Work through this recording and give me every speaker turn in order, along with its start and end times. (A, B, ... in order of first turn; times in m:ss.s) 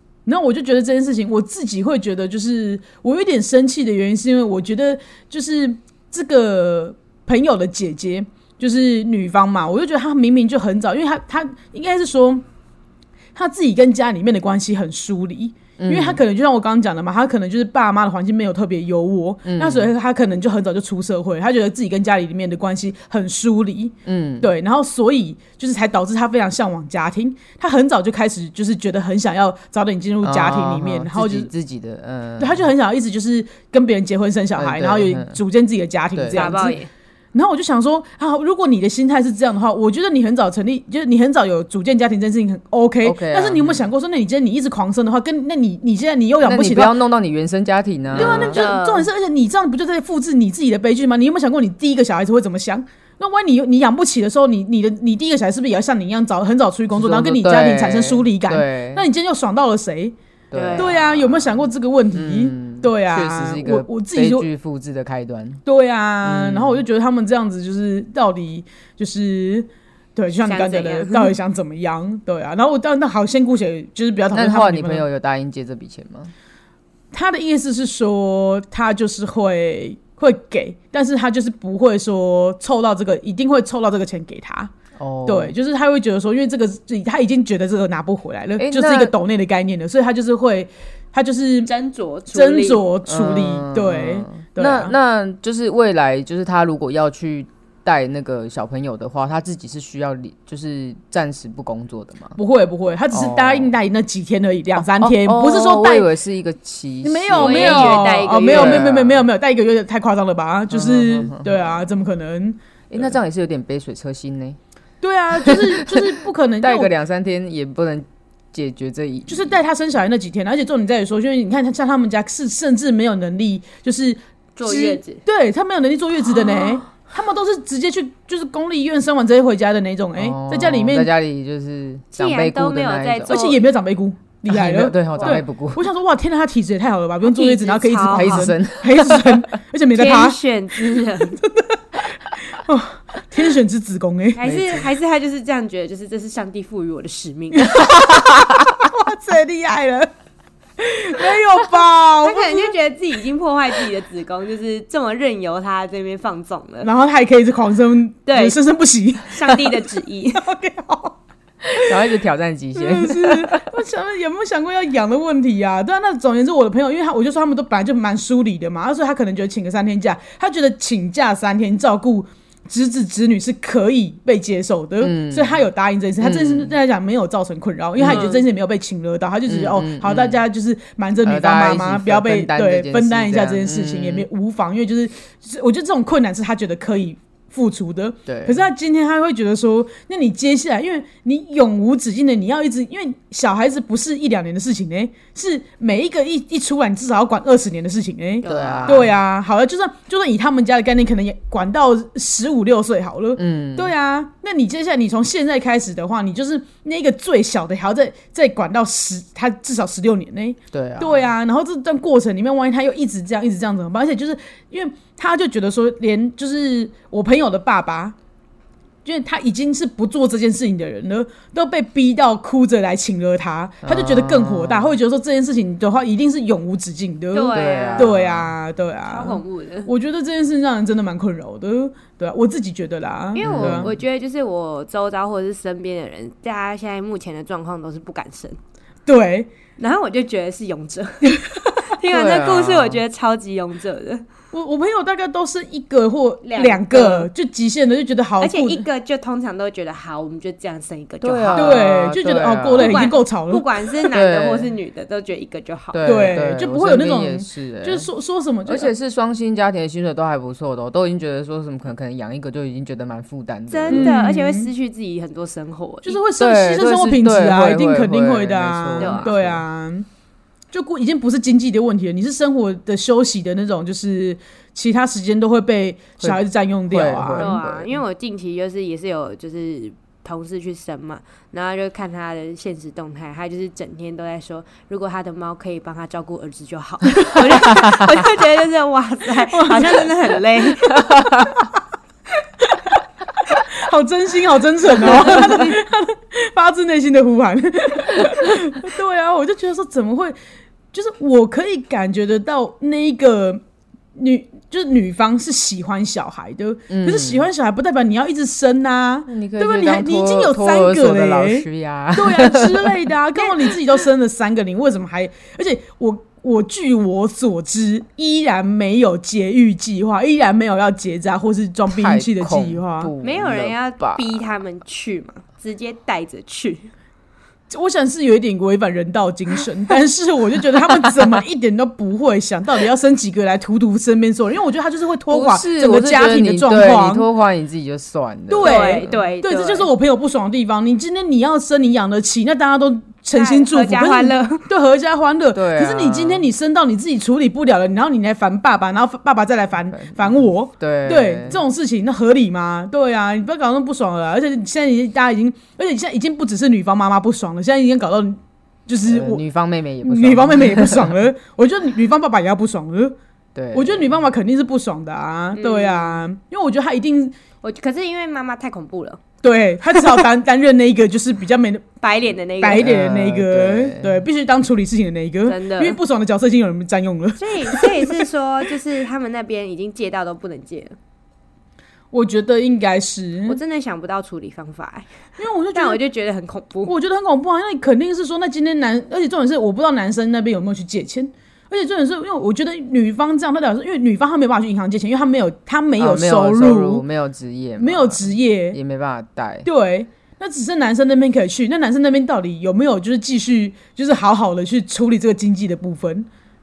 0:00.3-0:12.4 A
0:13.4-0:31.5 A
0:15.8-0:16.2 B
0:19.5-0:19.9 B
0:24.0-0:24.5 B
0:30.2-0:32.7 B
0:32.4-0:36.8 A
0:34.6-0:35.4 B
0:36.2-0:36.6 B
0:36.3-0:36.9 C
0:37.4-0:47.0 A
0:43.0-0:43.9 B
0:46.4-0:48.6 B
0:48.1-0:49.1 C
0:48.1-1:00.2 A
0:56.9-0:59.0 B
1:00.5-1:05.6 B
1:00.5-1:00.9 C
1:00.8-1:04.5 A
1:05.6-1:15.0 A
1:06.2-1:06.8 B
1:10.4-1:11.3 C
1:14.3-1:16.3 B
1:17.1-1:24.7 A
1:25.0-1:25.5 B
1:25.3-1:31.7 A
1:28.6-1:29.1 B
1:31.7-1:32.8 C
1:32.3-1:34.9 A
1:33.1-1:42.4 B
1:42.4-1:46.1 A
1:43.1-1:43.7 B
1:44.8-1:49.2 B
1:47.0-1:53.1 A
1:47.4-1:48.9 C
1:50.7-1:51.8 B
1:52.9-1:54.6 B
1:55.0-1:56.9 A
1:55.5-1:56.0 B
1:56.6-1:59.5 B
1:59.3-2:11.1 A
2:04.6-2:05.2 C
2:10.2-2:13.4 B
2:12.2-2:13.6 C
2:13.3-2:24.5 A
2:14.5-2:15.8 B
2:17.2-2:18.5 C
2:18.1-2:19.4 B
2:19.9-2:21.4 C
2:24.4-2:28.0 C
2:24.4-2:24.9 B
2:27.6-2:30.1 A
2:30.8-2:32.8 A
2:32.2-2:36.9 C
2:36.8-2:41.2 A
2:38.3-2:38.6 C
2:39.3-2:40.4 C
2:41.8-2:43.6 B
2:42.8-3:38.2 A
2:55.0-2:55.6 B
2:56.2-2:56.7 B
2:58.0-2:58.3 B
2:58.0-2:58.5 C
2:59.5-3:00.4 B
3:01.2-3:04.3 B
3:08.3-3:08.6 B
3:18.4-3:19.1 C
3:18.4-3:19.1 B
3:23.4-3:23.9 B
3:30.7-3:31.3 B
3:39.0-3:53.9 A
3:43.8-3:45.0 B
3:47.3-3:48.1 C
3:47.5-3:48.5 B
3:49.1-3:49.9 C
3:53.4-3:58.6 C
3:53.4-3:53.9 B
3:59.1-3:59.5 A
3:59.8-4:04.2 C
4:02.1-4:03.0 B
4:04.5-4:08.8 A
4:06.4-4:07.3 C
4:08.4-4:11.8 C
4:11.2-4:13.1 B
4:11.6-4:13.6 A
4:12.8-4:16.2 C
4:14.1-4:14.7 B
4:15.9-4:18.1 B
4:16.0-4:18.9 A
4:18.7-4:24.1 B
4:23.7-4:26.2 C
4:23.9-4:24.7 A
4:26.0-4:30.1 A
4:26.4-4:29.6 B
4:29.0-4:29.3 C
4:30.7-4:37.6 A
4:36.2-4:38.0 B
4:37.3-4:51.1 C
4:49.5-4:50.1 A
4:50.9-4:51.7 A
4:52.6-4:53.0 A
4:53.5-5:00.4 A
4:55.0-4:55.7 C
5:00.9-5:03.6 A
5:04.2-5:23.1 A
5:06.9-5:07.5 B
5:09.3-5:13.1 B
5:21.9-5:24.2 B
5:23.2-5:26.9 C
5:27.7-5:37.3 A
5:35.3-5:39.2 B
5:38.5-5:59.4 A
5:38.6-5:39.9 C
5:43.3-5:44.6 C
5:45.5-5:46.5 B
5:49.9-5:51.6 B
5:59.0-6:01.1 B
6:00.0-6:03.2 A
6:03.6-6:04.1 B
6:03.7-6:07.4 A
6:05.6-6:06.2 C
6:07.6-6:09.2 C
6:09.4-6:11.9 A
6:12.0-6:12.9 C
6:12.6-6:18.2 A
6:12.8-6:14.2 B
6:15.5-6:16.0 C
6:17.4-6:21.0 C
6:22.1-6:23.6 A
6:23.5-6:25.1 C
6:25.4-6:26.0 A
6:25.7-6:26.9 C
6:26.9-6:37.0 A
6:36.0-6:39.7 B
6:37.8-6:38.8 A
6:39.6-6:46.3 A